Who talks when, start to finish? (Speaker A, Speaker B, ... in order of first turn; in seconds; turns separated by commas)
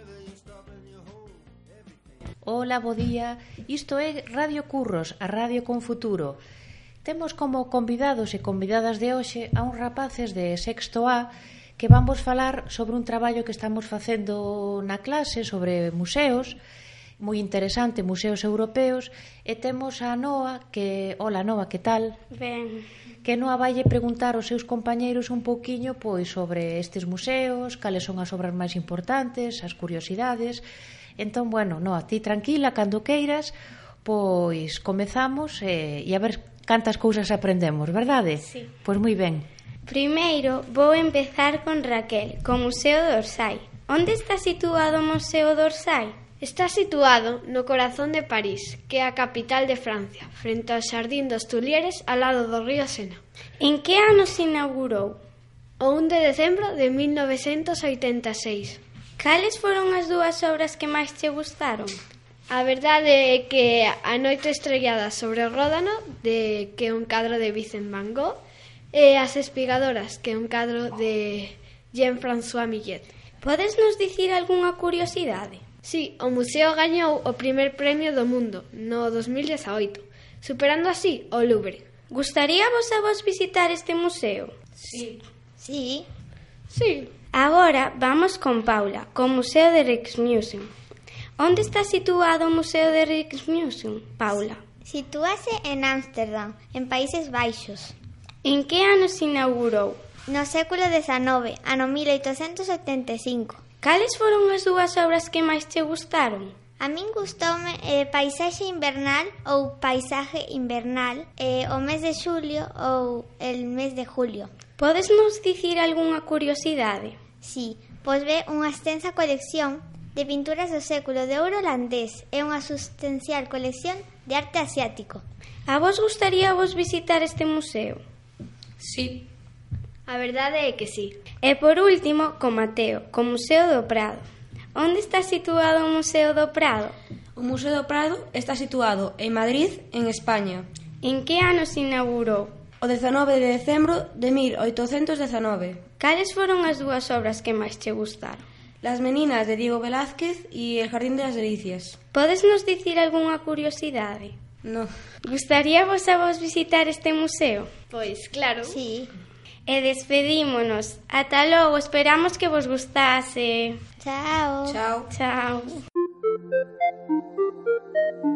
Speaker A: 2.4-6.4, Speaker A: 7.0-16.6, Speaker A: 17.2-22.1, Speaker B: 22.3-22.8, Speaker A: 23.2-30.6, Speaker A: 31.2-39.5, Speaker B: 39.9-46.1, Speaker C: 46.4-53.2, Speaker B: 53.6-55.2, Speaker C: 55.8-58.8, Speaker B: 59.2-62.0, Speaker C: 62.5-68.4, Speaker C: 68.9-73.1, Speaker B: 73.4-75.6, Speaker C: 75.8-81.8, Speaker B: 82.1-84.5, Speaker D: 84.8-85.2, Speaker E: 85.6-86.1, Speaker C: 86.7-87.1, Speaker B: 87.3-90.7, Speaker B: 91.4-94.6, Speaker E: 94.8-97.9, Speaker B: 98.4-100.0, Speaker E: 100.3-103.6, Speaker B: 103.8-106.5, Speaker E: 106.8-114.5, Speaker B: 114.8-117.2, Speaker E: 117.4-125.2, Speaker B: 125.7-128.0, Speaker D: 128.8-129.2, Speaker C: 130.1-131.2, Speaker B: 131.4-136.9, Speaker D: 137.3-140.7, Speaker B: 141.0-142.6, Speaker D: 142.8-145.8, Speaker B: 146.0-148.4, Speaker D: 148.8-152.0, Speaker B: 152.1-154.3, Speaker D: 154.6-154.9, Speaker B: 155.2-157.7, Speaker C: 157.9-158.7, Speaker E: 158.6-159.1, Speaker B: 159.7-163.8, Speaker E: 164.0-164.8, Speaker D: 164.7-165.1, Speaker B: 165.1-165.8